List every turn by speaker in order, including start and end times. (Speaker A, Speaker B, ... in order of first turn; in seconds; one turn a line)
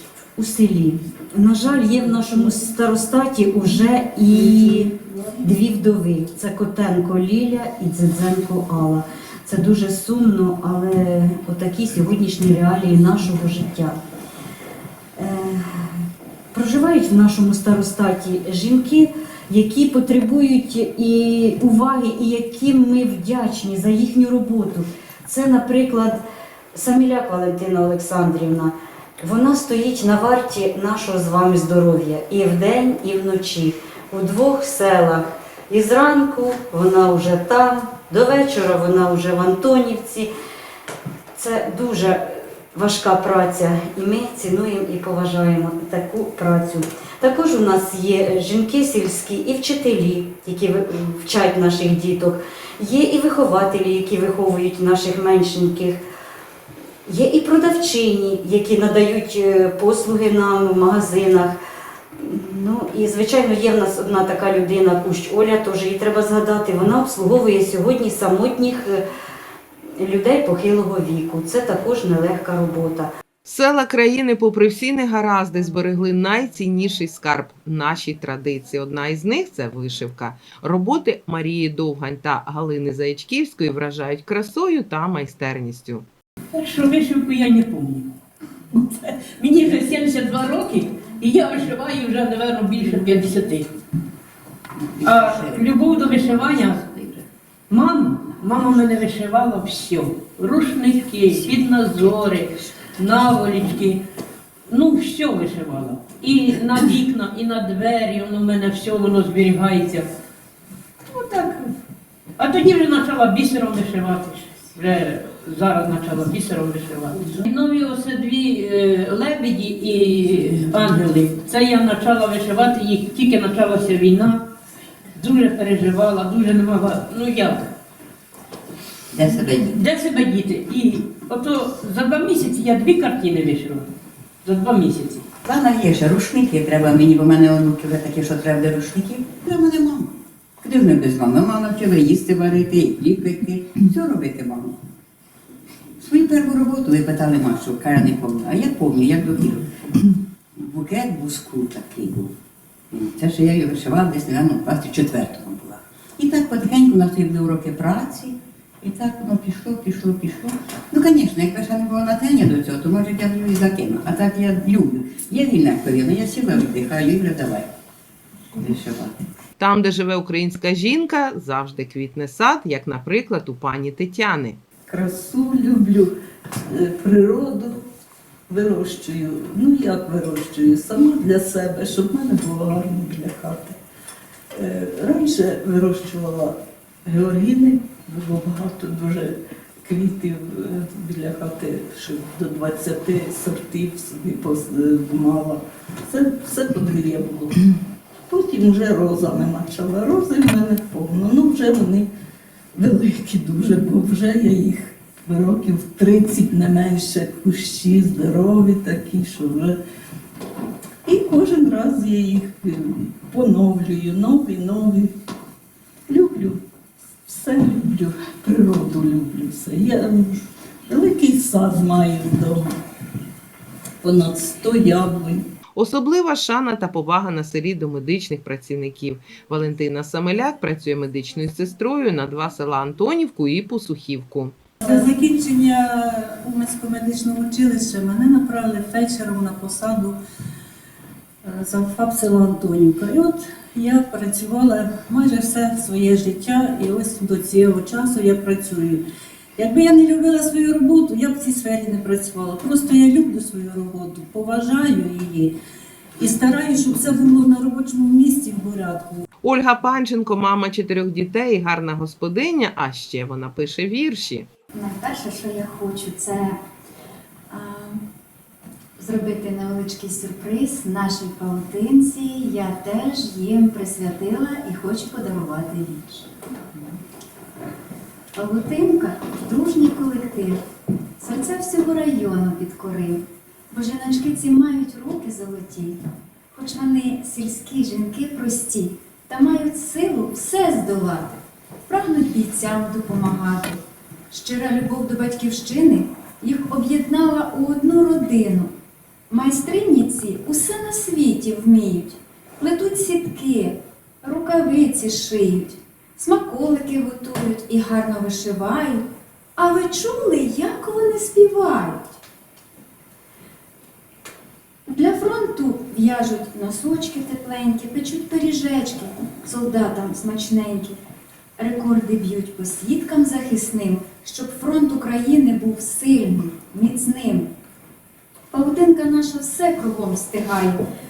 Speaker A: 0.4-14.0
Speaker A: 15.2-16.0
Speaker A: 16.5-26.2
Speaker A: 26.7-40.3
Speaker A: 41.4-56.0
Speaker A: 57.1-61.6
Speaker A: 62.2-69.0
Speaker A: 70.0-73.1
Speaker B: 73.5-86.1
Speaker C: 86.5-88.1
Speaker C: 88.7-93.7
Speaker D: 95.0-95.6
Speaker C: 95.0-104.0
Speaker C: 104.7-110.1
Speaker C: 111.1-111.5
Speaker C: 112.4-124.4
Speaker C: 125.2-127.7
Speaker D: 129.1-129.8
Speaker C: 129.7-133.9
Speaker C: 134.4-135.2
Speaker D: 135.4-144.8
Speaker D: 146.0-152.3
Speaker D: 152.9-167.7
Speaker D: 168.6-169.2
Speaker B: 169.6-174.6
Speaker E: 174.9-176.1
Speaker E: 176.7-177.8
Speaker E: 178.5-183.8
Speaker E: 184.6-197.7
Speaker E: 198.3-202.1
Speaker E: 202.8-209.8
Speaker E: 211.1-215.1
Speaker E: 216.1-216.6
Speaker E: 217.3-222.8
Speaker E: 224.0-225.4
Speaker B: 225.8-234.6
Speaker F: 234.8-240.2
Speaker F: 241.5-249.0
Speaker F: 249.6-255.5
Speaker F: 256.2-259.2
Speaker B: 259.4-264.5
Speaker G: 264.8-266.6
Speaker G: 267.5-268.0
Speaker G: 269.0-276.3
Speaker G: 278.4-280.6
Speaker G: 281.2-286.0
Speaker G: 286.5-298.7
Speaker G: 299.3-309.0
Speaker G: 309.6-312.2
Speaker G: 314.9-321.0
Speaker G: 321.6-327.5
Speaker G: 328.5-330.8